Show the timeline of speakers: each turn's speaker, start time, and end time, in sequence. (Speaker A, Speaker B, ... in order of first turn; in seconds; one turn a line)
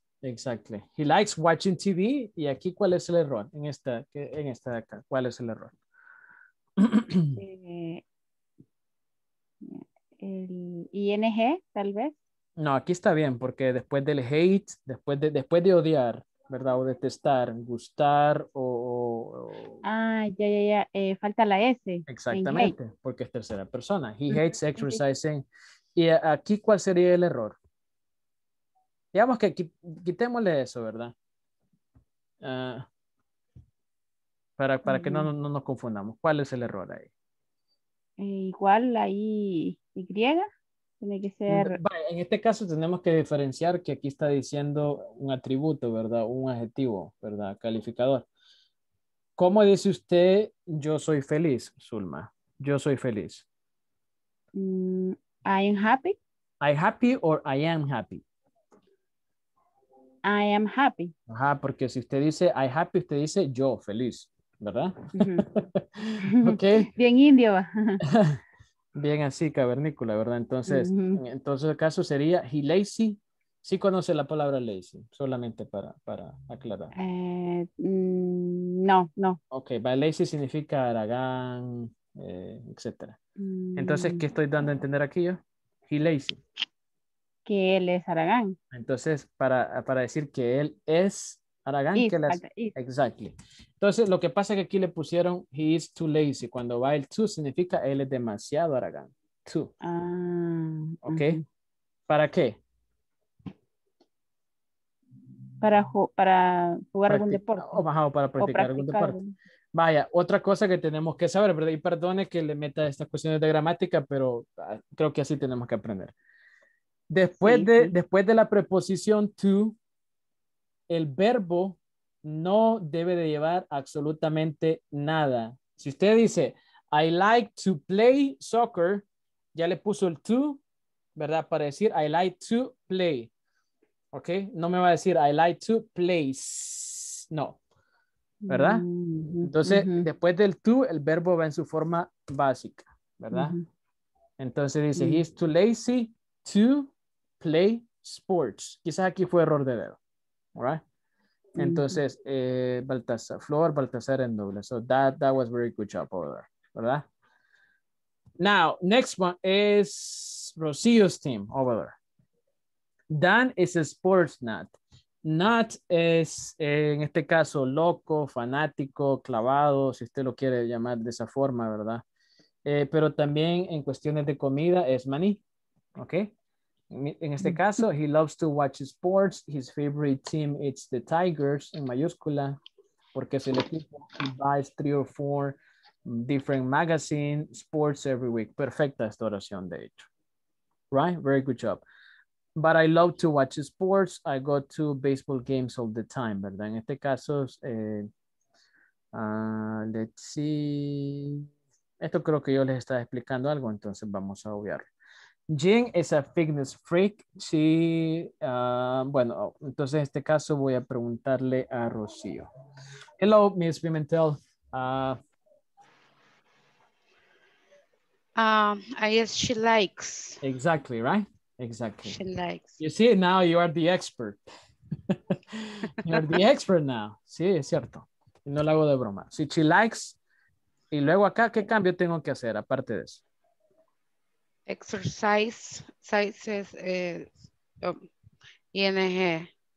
Speaker A: 0.2-5.7
Speaker A: 6.8-7.4
Speaker B: 7.3-8.0
Speaker B: 9.6-12.1
Speaker A: 12.6-19.8
Speaker B: 19.8-22.7
Speaker A: 22.1-25.4
Speaker B: 24.3-25.0
Speaker A: 25.9-27.6
Speaker A: 29.1-31.1
Speaker A: 32.4-32.9
Speaker A: 34.6-37.1
Speaker B: 34.9-35.3
Speaker B: 38.2-40.5
Speaker B: 41.0-41.8
Speaker A: 41.5-48.2
Speaker A: 49.4-53.4
Speaker B: 54.5-56.2
Speaker A: 56.6-58.2
Speaker B: 60.2-61.1
Speaker A: 61.3-66.9
Speaker B: 65.2-65.6
Speaker B: 66.3-68.0
Speaker A: 68.1-68.3
Speaker A: 69.0-76.9
Speaker B: 70.7-71.2
Speaker B: 77.0-79.4
Speaker A: 79.5-83.2
Speaker B: 83.4-84.2
Speaker A: 83.8-86.4
Speaker B: 87.5-88.6
Speaker A: 88.7-99.7
Speaker B: 92.0-92.7
Speaker B: 99.8-101.4
Speaker A: 101.0-101.4
Speaker A: 102.1-102.6
Speaker B: 105.6-107.8
Speaker A: 107.1-109.2
Speaker B: 108.4-109.3
Speaker A: 109.7-116.1
Speaker A: 117.1-119.8
Speaker B: 117.5-117.9
Speaker A: 120.9-130.6
Speaker A: 131.2-133.3
Speaker A: 134.1-137.6
Speaker B: 138.4-140.1
Speaker A: 138.5-138.8
Speaker A: 139.4-143.6
Speaker B: 143.3-143.6
Speaker A: 144.4-150.0
Speaker B: 145.0-145.2
Speaker A: 150.6-150.8
Speaker B: 151.6-152.0
Speaker A: 151.6-157.0
Speaker A: 158.4-161.9
Speaker A: 163.1-164.7
Speaker A: 165.2-172.0
Speaker A: 172.7-175.4
Speaker A: 176.0-176.3
Speaker A: 176.9-182.6
Speaker A: 183.1-190.1
Speaker A: 190.9-191.8
Speaker A: 192.6-198.1
Speaker A: 199.1-201.4
Speaker A: 202.0-204.9
Speaker A: 205.5-212.5
Speaker A: 213.2-215.2
Speaker C: 218.4-220.4
Speaker A: 220.4-222.2
Speaker C: 222.1-222.8
Speaker A: 222.8-224.4
Speaker A: 225.1-230.2
Speaker A: 230.9-233.2
Speaker C: 234.7-238.1
Speaker C: 238.7-239.5